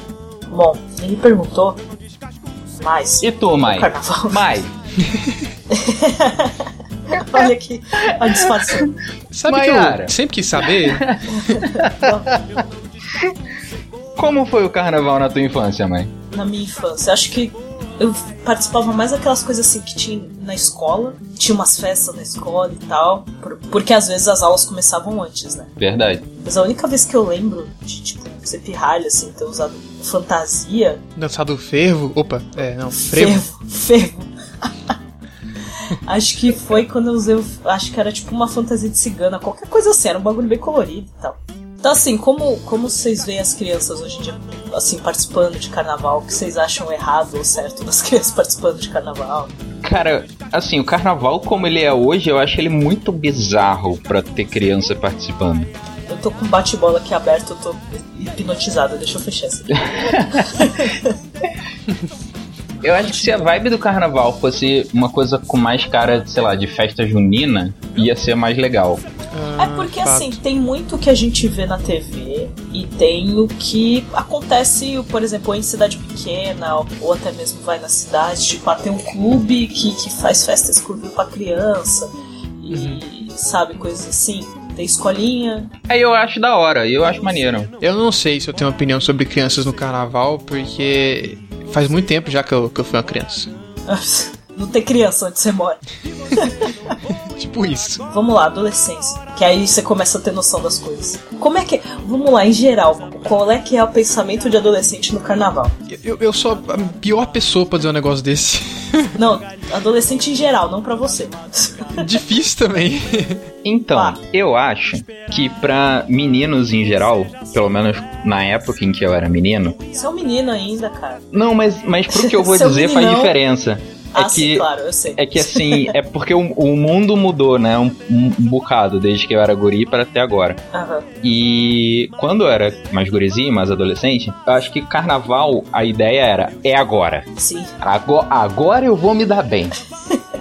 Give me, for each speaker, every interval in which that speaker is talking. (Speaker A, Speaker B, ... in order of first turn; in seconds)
Speaker A: 0.5-1.8, 2.8-4.6, 5.7-8.9, 11.3-12.4, 16.3-25.7, 26.4-31.0, 33.0-34.9, 35.9-49.5, 56.1-61.2, 69.6-82.1, 82.6-85.7, 93.9-95.8, 96.3-97.0, 98.1-105.8, 109.2-112.0, 113.9-114.2, 119.9-121.3, 122.1-123.4, 124.1-125.9, 130.7-131.1, 137.4-137.7
Speaker B: 3.2-4.8, 8.2-8.9, 9.5-10.2, 10.7-12.6, 14.2-16.1, 25.8-26.3, 49.8-55.7, 59.8-60.9, 62.8-69.0, 85.9-87.7, 113.6-119.8, 121.3-130.6, 131.2-137.3, 137.8-139.8
Speaker C: 9.3-11.7, 31.2-33.4, 63.0-63.4, 69.3-70.4, 82.7-83.0, 87.8-93.5, 97.2-98.1, 105.9-109.1, 112.0-113.5